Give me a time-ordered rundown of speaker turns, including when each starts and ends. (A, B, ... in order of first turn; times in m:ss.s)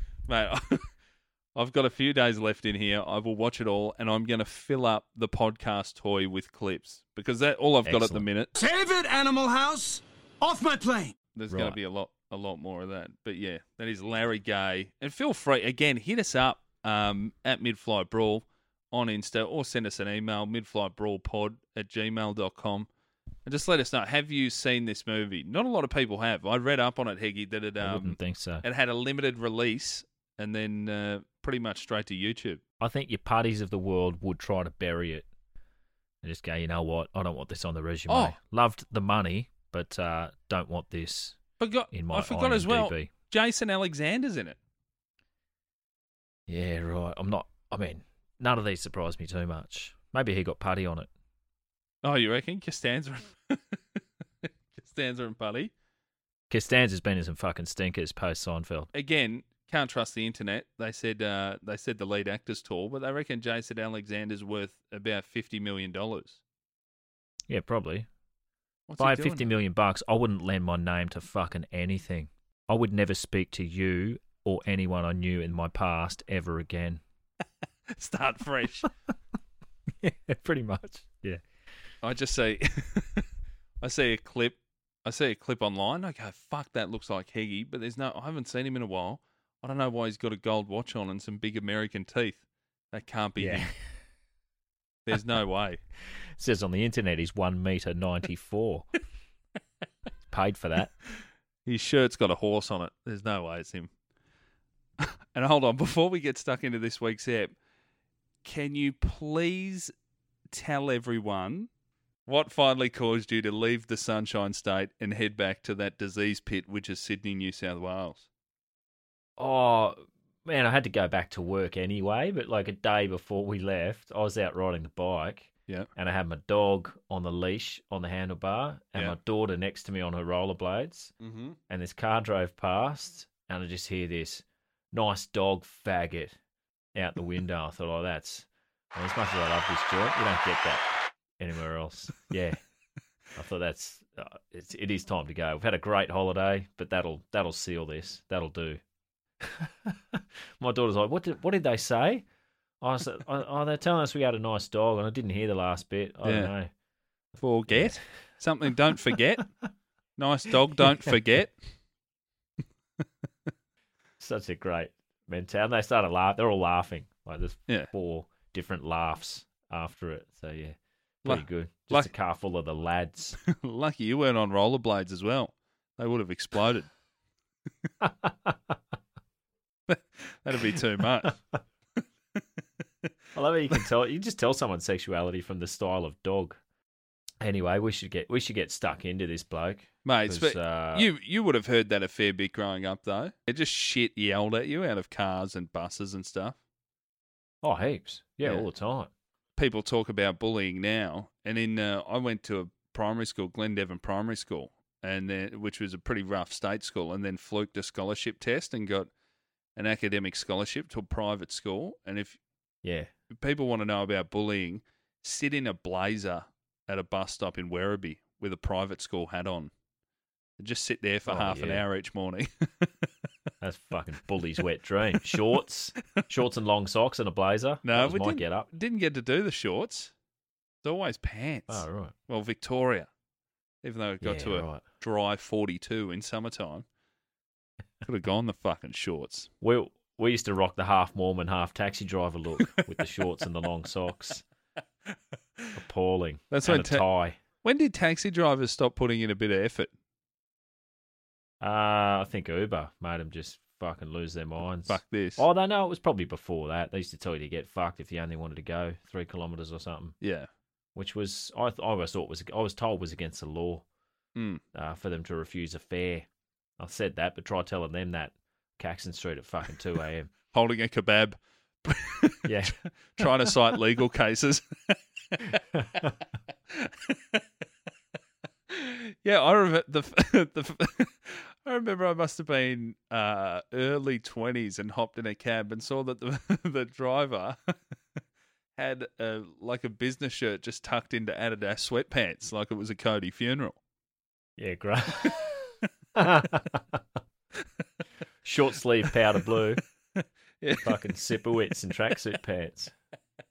0:00.3-0:00.9 A
0:01.5-0:08.5 A
0:07.8-0:08.2 B
0:08.6-0:11.1 C
0:11.3-0:22.9 A
0:11.5-0:11.8 B
0:23.4-0:32.6 A
0:27.8-0:28.6 B
0:32.8-0:35.3 B
0:36.2-0:43.1 B
0:38.1-0:38.4 A
0:41.6-0:44.6 A
0:46.5-0:51.1 B
0:52.0-0:55.7 A
0:56.5-0:58.9 B
0:58.9-1:06.4 A
1:07.5-1:08.1 B
1:08.9-1:09.5 A
1:09.0-1:17.0 B
1:17.9-1:18.9 A
1:20.0-1:21.4 B
1:22.0-1:23.2 A
1:23.8-1:33.7 A
1:33.4-1:34.0 B
1:35.0-1:35.8 A
1:36.4-1:38.9 B
1:40.3-1:40.9 B
1:41.6-1:43.9 A
1:45.0-1:47.5 A
1:48.4-1:49.9 A
1:50.5-1:51.7 A
1:52.2-1:58.2 A
1:59.4-2:11.1 B
2:11.2-2:11.6 A
2:11.7-2:16.4 B
2:16.9-2:22.6 B
2:23.3-2:28.8 B
2:29.4-2:32.2 B
2:32.8-2:36.7 B
2:36.2-2:36.5 A
2:37.4-2:39.5 A
2:37.7-2:38.1 B
2:40.2-2:41.7 A
2:44.2-2:53.4 B
2:51.2-2:52.1 A
2:53.5-2:56.9 A
2:58.0-2:58.7 B
2:59.9-3:01.4 A
3:03.3-3:06.6 B
3:07.4-3:11.1 B
3:10.0-3:16.6 A
3:17.6-3:19.1 B
3:19.6-3:29.1 A
3:29.8-3:32.4 A
3:32.8-3:33.1 B
3:33.3-3:39.7 A
3:40.6-3:43.1 A
3:41.3-3:41.8 B
3:43.6-3:48.7 B
3:47.8-3:50.1 A
3:50.8-3:53.1 A
3:51.7-3:52.1 B
3:53.8-3:56.8 A
3:54.2-3:54.8 B
3:58.0-3:59.5 A
3:59.6-4:04.4 B
4:05.1-4:05.7 A
4:05.7-4:07.4 B
4:06.5-4:07.0 A
4:07.6-4:09.9 A
4:11.6-4:20.2 B
4:14.9-4:15.4 A
4:20.2-4:20.5 A
4:20.9-4:23.8 B
4:24.4-4:24.6 A
4:24.7-4:26.3 B
4:26.8-4:30.3 B
4:30.5-4:35.6 A
4:32.4-4:33.2 B
4:36.7-4:37.4 A
4:38.7-4:47.6 A
4:48.8-4:53.8 A
4:54.6-4:57.0 B
4:58.4-4:59.8 B
5:00.6-5:01.0 A
5:00.8-5:02.9 B